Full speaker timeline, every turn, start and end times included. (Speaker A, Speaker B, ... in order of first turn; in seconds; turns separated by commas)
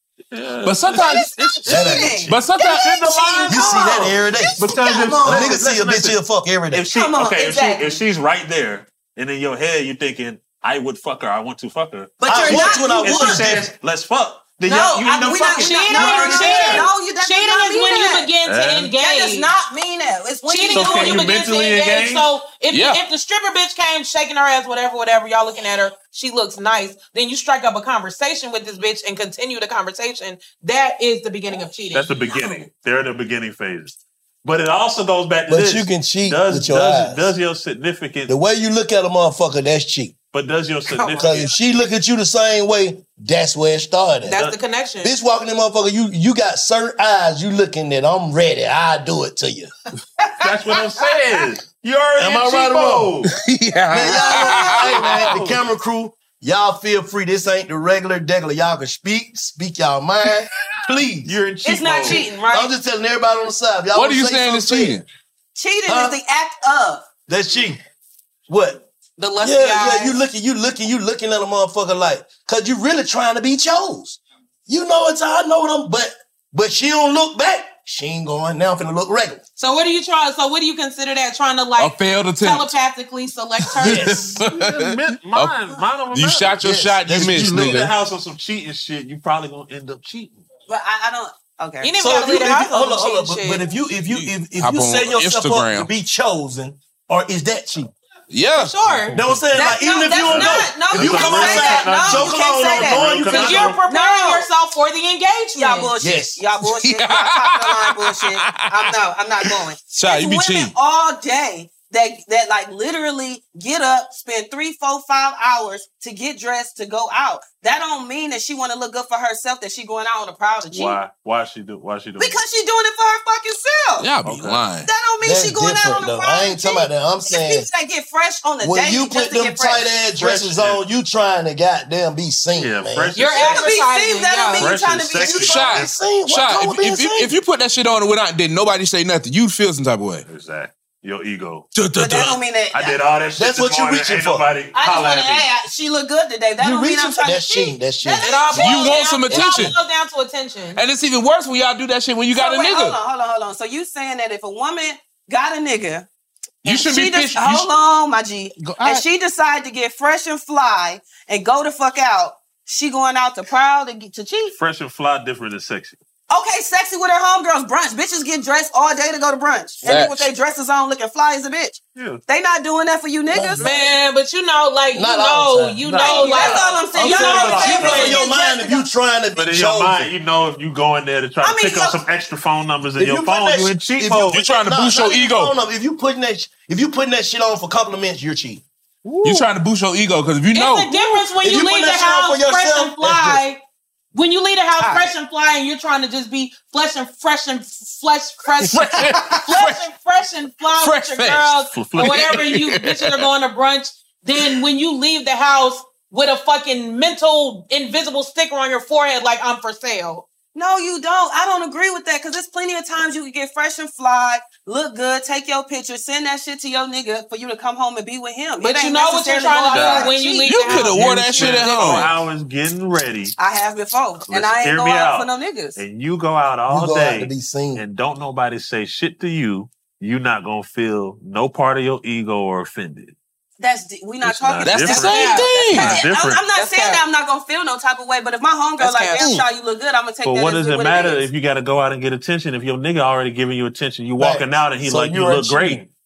Speaker A: 0.3-2.4, Speaker B: 0.6-1.3, Speaker C: 0.9-5.6, Speaker D: 1.7-2.2, Speaker B: 2.3-3.1, Speaker A: 3.1-16.9, Speaker D: 3.5-6.9, Speaker C: 6.9-8.0, Speaker C: 12.2-13.5, Speaker D: 12.2-13.7, Speaker C: 14.7-18.3, Speaker E: 15.6-19.5, Speaker A: 18.4-18.9, Speaker C: 19.0-21.4, Speaker E: 20.5-32.1, Speaker A: 20.7-22.3, Speaker B: 22.7-23.0, Speaker A: 31.9-38.3, Speaker D: 35.5-37.3, Speaker D: 38.3-40.1, Speaker A: 40.3-41.5, Speaker D: 41.0-44.4, Speaker E: 44.3-45.1, Speaker D: 45.0-49.7, Speaker A: 50.4-53.3, Speaker D: 52.2-53.1, Speaker B: 53.3-55.4, Speaker D: 53.9-61.4, Speaker C: 54.2-54.8, Speaker A: 61.2-62.3, Speaker C: 61.6-62.7, Speaker D: 62.1-65.0, Speaker B: 63.9-65.0, Speaker C: 65.5-67.1, Speaker D: 65.9-66.2, Speaker D: 67.3-67.8, Speaker D: 68.5-68.9, Speaker E: 69.2-70.2, Speaker D: 69.4-79.4, Speaker E: 79.6-84.2, Speaker B: 81.8-82.7, Speaker B: 83.7-85.5, Speaker D: 83.8-84.3, Speaker A: 84.5-90.4, Speaker B: 86.1-87.9, Speaker D: 86.6-87.9, Speaker C: 90.7-92.0, Speaker E: 91.8-93.7, Speaker D: 92.0-97.9, Speaker B: 94.1-95.9, Speaker B: 98.3-99.2, Speaker E: 98.6-99.2, Speaker D: 99.1-103.7, Speaker C: 99.5-104.5, Speaker A: 100.2-103.8, Speaker E: 103.3-105.9, Speaker C: 105.6-121.0, Speaker D: 106.0-106.4, Speaker B: 106.7-110.7, Speaker A: 120.7-122.4, Speaker C: 122.2-124.1, Speaker B: 124.0-124.9, Speaker A: 124.2-124.7, Speaker C: 124.8-129.9, Speaker D: 125.2-127.7, Speaker D: 128.6-133.2, Speaker A: 130.2-130.8, Speaker A: 132.6-133.7, Speaker E: 133.2-134.7, Speaker C: 133.4-135.7, Speaker A: 134.6-135.9, Speaker D: 135.2-137.3, Speaker B: 135.4-140.2, Speaker A: 140.3-141.7, Speaker B: 141.8-142.4, Speaker C: 142.0-143.0, Speaker A: 142.7-145.5, Speaker D: 143.4-144.4, Speaker C: 144.7-149.6, Speaker D: 146.6-148.3, Speaker E: 148.2-150.8, Speaker B: 148.5-149.8, Speaker B: 150.8-153.0, Speaker C: 152.3-156.1, Speaker B: 156.7-157.7, Speaker C: 156.7-164.6, Speaker B: 158.6-159.0, Speaker A: 164.6-166.0, Speaker C: 166.3-173.6, Speaker B: 169.8-170.3, Speaker A: 172.0-172.2, Speaker D: 173.3-173.9, Speaker E: 173.6-178.2, Speaker D: 174.9-175.9, Speaker A: 175.9-178.2, Speaker C: 175.9-178.9, Speaker D: 177.5-180.1, Speaker A: 179.3-184.6, Speaker C: 181.4-182.0, Speaker D: 183.0-188.6, Speaker B: 184.3-185.5, Speaker A: 189.1-189.4, Speaker B: 189.2-191.0, Speaker E: 190.5-193.6, Speaker D: 191.4-193.4, Speaker E: 194.1-210.2, Speaker C: 194.8-195.1, Speaker B: 198.6-199.8, Speaker B: 200.8-203.3, Speaker A: 201.7-202.3, Speaker C: 210.6-220.2, Speaker E: 218.6-222.1, Speaker A: 219.7-223.3, Speaker B: 220.2-222.2, Speaker C: 223.4-225.8, Speaker A: 224.3-233.2, Speaker D: 226.7-227.8, Speaker C: 233.6-241.3, Speaker A: 234.2-236.4, Speaker B: 234.6-236.0, Speaker E: 235.0-235.8, Speaker E: 236.5-237.0, Speaker E: 238.8-239.3, Speaker B: 239.2-239.5, Speaker A: 240.2-245.9, Speaker D: 244.2-245.8